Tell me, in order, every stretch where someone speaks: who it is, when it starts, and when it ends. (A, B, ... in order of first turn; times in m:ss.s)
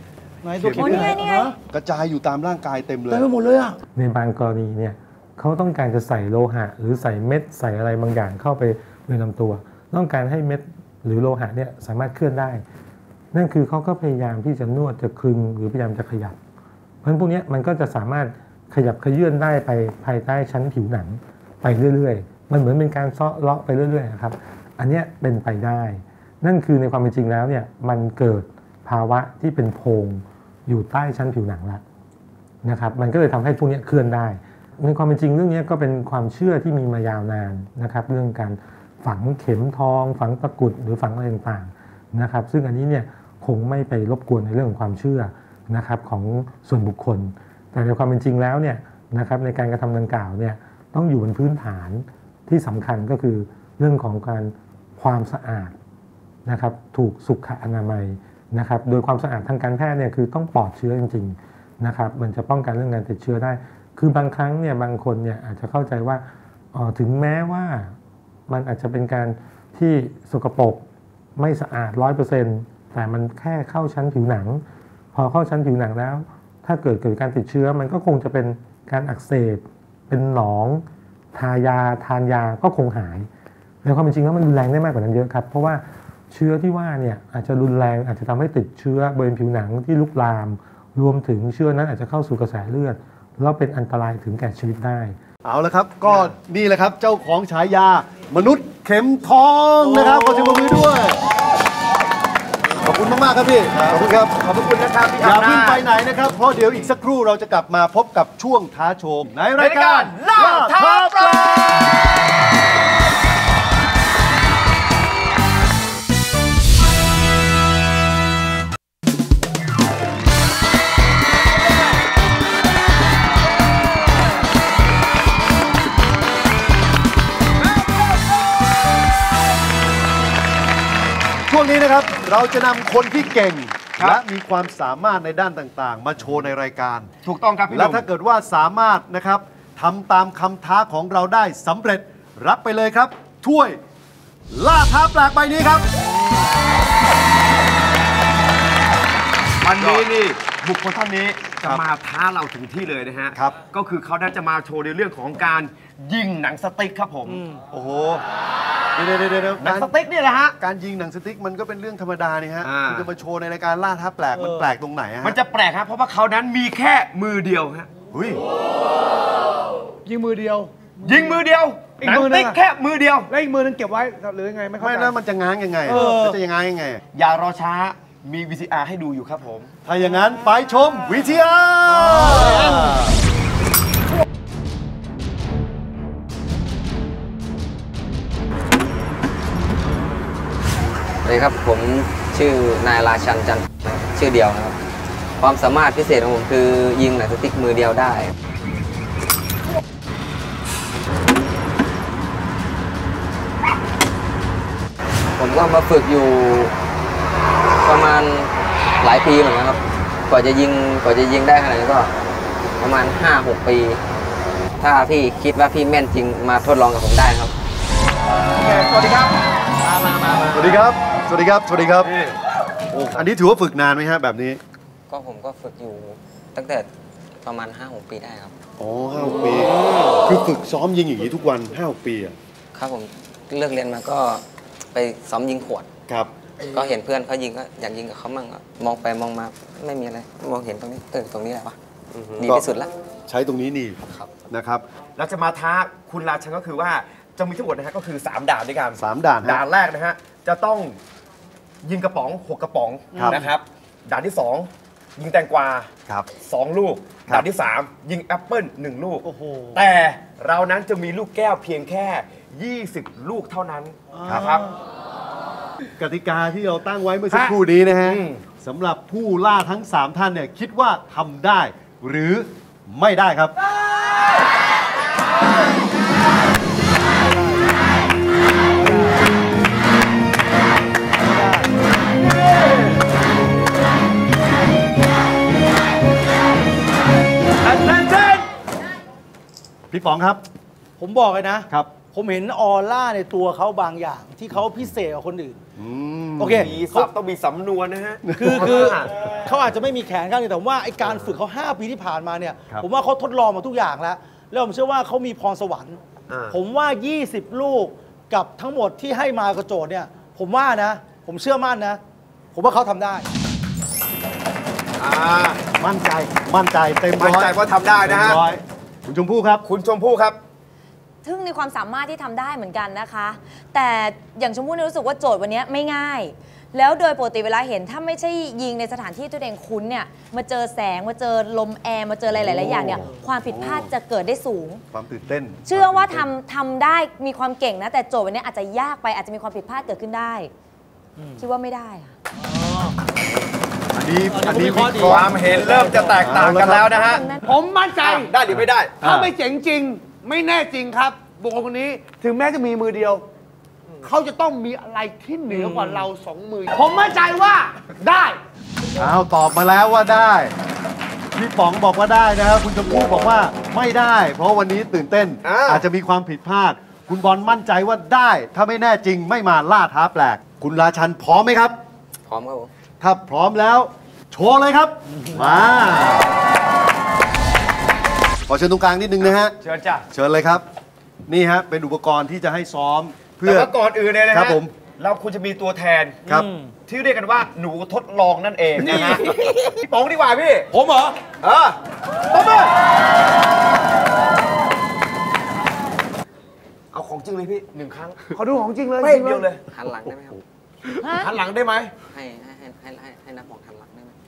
0:00.4-0:01.6 A
0:00.5-0:03.3 B
0:00.8-0:01.5 C
0:03.1-0:03.8 A
0:04.0-0:12.6 D
0:13.3-0:16.4 D
0:17.0-0:31.8 D
0:32.6-0:55.7 D
0:56.4-1:07.9 D
1:08.5-1:10.8 D
1:11.4-1:23.3 D
1:23.8-1:35.2 D
1:35.4-1:41.2 B
1:39.9-1:40.4 A
1:42.8-1:44.4 B
1:43.8-1:45.8 E
1:45.2-1:51.9 B
1:49.6-1:52.2 E
2:11.5-2:17.1 B
2:17.2-2:18.0 E
2:17.7-2:23.8 B
2:24.5-2:25.9 B
2:29.6-2:37.4 E
2:29.7-2:30.1 B
2:33.3-2:33.6 B
2:37.2-2:37.6 A
2:37.7-2:38.2 B
2:38.9-2:39.9 B
2:39.6-2:40.5 E
2:40.6-2:45.4 B
2:42.6-2:43.1 E
2:44.4-2:44.7 A
2:45.2-2:47.9 E
2:48.1-2:48.4 B
2:50.0-2:51.3 F
2:51.0-2:53.3 E
2:52.0-2:52.6 F
2:53.3-2:55.1 F
2:54.8-2:57.0 B
2:55.9-2:56.4 A
2:57.1-2:59.7 E
2:59.8-3:03.1 B
3:11.2-3:14.8 G
3:15.4-3:18.3 G
3:25.4-3:26.7 G
3:27.8-3:32.1 G
3:32.8-3:34.0 G
3:34.8-3:37.5 G
3:38.5-3:40.8 E
3:40.5-3:42.1 B
3:42.0-3:42.4 E
3:42.9-3:44.6 B
3:45.1-3:46.9 G
3:47.4-3:48.5 G
3:48.8-3:52.3 B
3:49.3-3:50.2 E
3:52.7-3:55.9 G
3:56.6-4:01.8 G
4:02.3-4:02.9 G
4:03.3-4:04.8 B
4:05.2-4:11.0 E
4:09.0-4:09.6 B
4:11.8-4:15.9 E
4:13.1-4:13.4 B
4:16.4-4:24.6 E
4:19.3-4:19.7 A
4:24.2-4:24.6 B
4:26.0-4:33.5 B
4:28.0-4:28.4 E
4:37.2-4:37.7 A
4:38.8-4:39.1 A
4:41.2-4:41.7 A
4:49.9-4:50.4 B
4:51.0-4:55.6 A
4:55.8-4:56.7 B
4:56.4-4:57.1 A
4:56.5-4:59.1 E
4:58.3-4:59.0 B
4:58.4-5:12.0 A
5:01.0-5:01.3 E
5:06.3-5:06.5 E
5:12.5-5:13.3 A
5:15.0-5:15.6 E
5:15.8-5:19.6 B
5:17.2-5:18.4 E
5:19.6-5:20.4 E
5:21.2-5:34.8 C
5:32.3-5:33.9 B
5:34.9-5:36.3 B
5:35.7-5:40.5 C
5:41.2-5:41.4 A
5:41.4-5:42.1 C
5:42.4-5:43.0 A
5:43.9-5:45.3 B
5:44.3-5:46.1 A
5:45.0-5:47.2 E
5:46.1-5:46.9 B
5:46.7-5:47.5 C
5:47.4-5:48.3 F
5:48.0-5:49.0 E
5:49.0-5:53.2 F
5:54.0-5:58.4 F
5:55.5-5:56.0 A
5:59.0-6:00.5 B
6:01.3-6:11.8 B
6:05.4-6:05.8 E
6:12.3-6:12.7 G
6:13.0-6:16.2 B
6:18.5-6:19.6 B
6:19.6-6:20.0 E
6:20.1-6:20.6 B
6:21.3-6:23.7 B
6:23.4-6:26.2 E
6:24.3-6:24.7 B
6:26.2-6:26.7 A
6:26.9-6:30.7 E
6:28.8-6:29.6 A
6:30.7-6:31.2 A
6:31.4-6:31.8 E
6:32.3-6:32.7 E
6:36.9-6:38.2 E
6:38.3-6:39.5 F
6:39.0-6:39.6 E
6:39.6-6:40.4 G
6:41.0-6:41.9 E
6:41.0-6:41.3 C
6:42.0-6:44.1 G